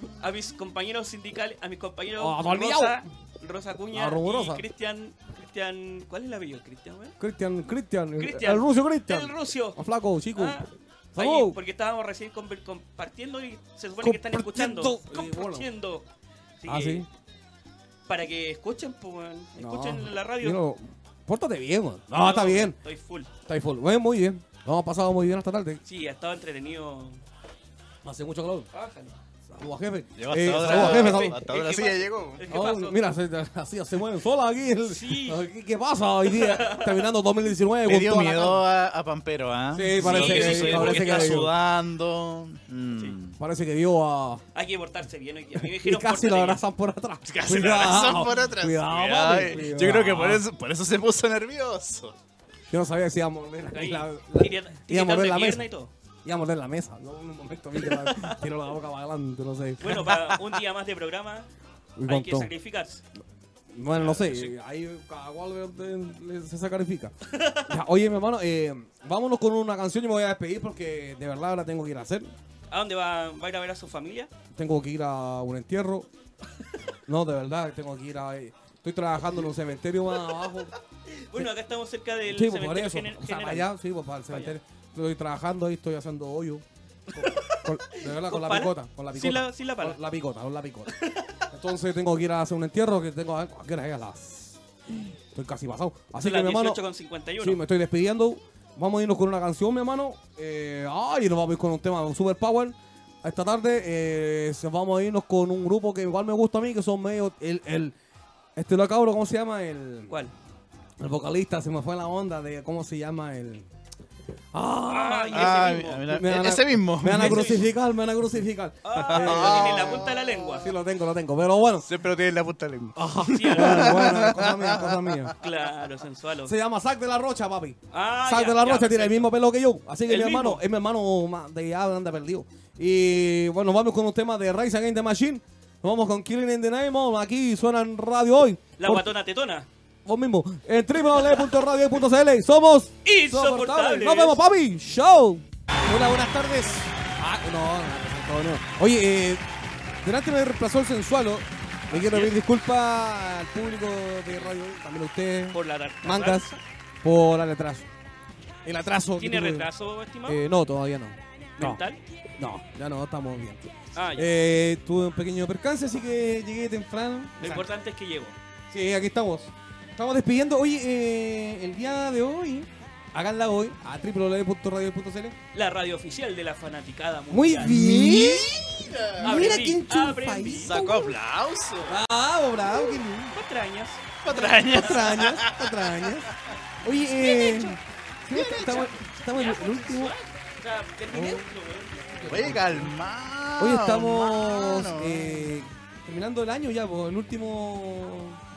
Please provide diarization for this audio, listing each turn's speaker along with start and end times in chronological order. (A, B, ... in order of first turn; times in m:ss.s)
0:00.2-0:07.2 A
0:02.2-0:03.0 B
0:03.9-0:04.6 B
0:07.2-0:10.6 B
0:08.2-0:09.8 A
0:10.3-0:16.1 A
0:11.1-0:11.6 B
0:14.0-0:15.7 B
0:16.6-0:17.0 A
0:16.7-0:17.1 B
0:18.1-0:20.6 A
0:19.6-0:22.8 B
0:22.1-0:23.3 A
0:23.4-0:25.8 B
0:25.8-0:27.2 A
0:28.0-0:28.7 B
0:28.7-0:29.1 A
0:29.5-0:31.4 B
0:30.2-0:32.4 C
0:30.6-0:33.0 A
0:32.5-0:38.6 B
0:34.9-0:35.4 A
0:36.2-0:37.1 A
0:37.8-0:43.4 C
0:39.7-0:41.5 B
0:40.0-0:41.5 A
0:43.4-0:44.4 B
0:44.5-0:46.6 A
0:45.6-0:50.4 B
0:47.2-0:52.1 C
0:52.7-0:55.7 B
0:53.6-0:55.9 A
0:56.2-1:00.1 B
0:58.0-0:58.4 A
0:59.8-1:01.5 A
0:59.9-1:00.5 C
1:02.0-1:02.5 B
1:02.0-1:03.0 A
1:03.7-1:07.1 B
1:04.0-1:04.5 C
1:07.3-1:07.8 A
1:07.6-1:12.3 B
1:12.7-1:14.3 A
1:14.5-1:16.1 B
1:17.1-1:20.7 B
1:21.1-1:23.7 A
1:22.2-1:30.9 B
1:27.1-1:30.0 A
1:30.9-1:31.4 A
1:31.5-1:36.8 B
1:36.2-1:37.6 A
1:37.4-1:47.9 B
1:48.6-1:50.2 B
1:51.0-1:53.7 B
1:54.5-2:01.9 B
1:54.9-1:56.0 A
1:55.3-1:57.6 C
1:57.1-1:57.6 A
1:58.8-2:00.7 A
1:59.1-2:00.3 C
2:01.8-2:05.3 C
2:03.0-2:05.3 B
2:03.2-2:04.1 A
2:05.4-2:06.5 A
2:06.4-2:19.1 B
2:07.9-2:09.3 A
2:10.1-2:10.6 A
2:18.8-2:19.7 A
2:20.0-2:29.4 B
2:23.0-2:24.4 A
2:30.0-2:36.5 B
2:31.9-2:32.3 A
2:35.5-2:36.6 A
2:37.0-2:37.9 B
2:38.6-2:39.7 B
2:39.2-2:40.4 A
2:40.2-2:41.8 B
2:41.6-2:42.0 A
2:42.4-2:47.7 B
2:43.9-2:44.3 A
2:47.4-2:48.4 A
2:48.7-2:55.4 B
2:55.5-2:57.8 A
2:57.3-3:01.2 B
2:57.6-2:59.6 C
2:59.2-3:00.7 A
3:00.5-3:02.0 C
3:01.8-3:03.4 B
3:03.3-3:05.0 A
3:04.2-3:06.2 C
3:04.4-3:10.1 B
3:07.2-3:07.7 A
3:08.3-3:08.9 C
3:08.5-3:12.6 A
3:11.1-3:12.9 B
3:12.3-3:15.6 C
3:13.6-3:18.4 B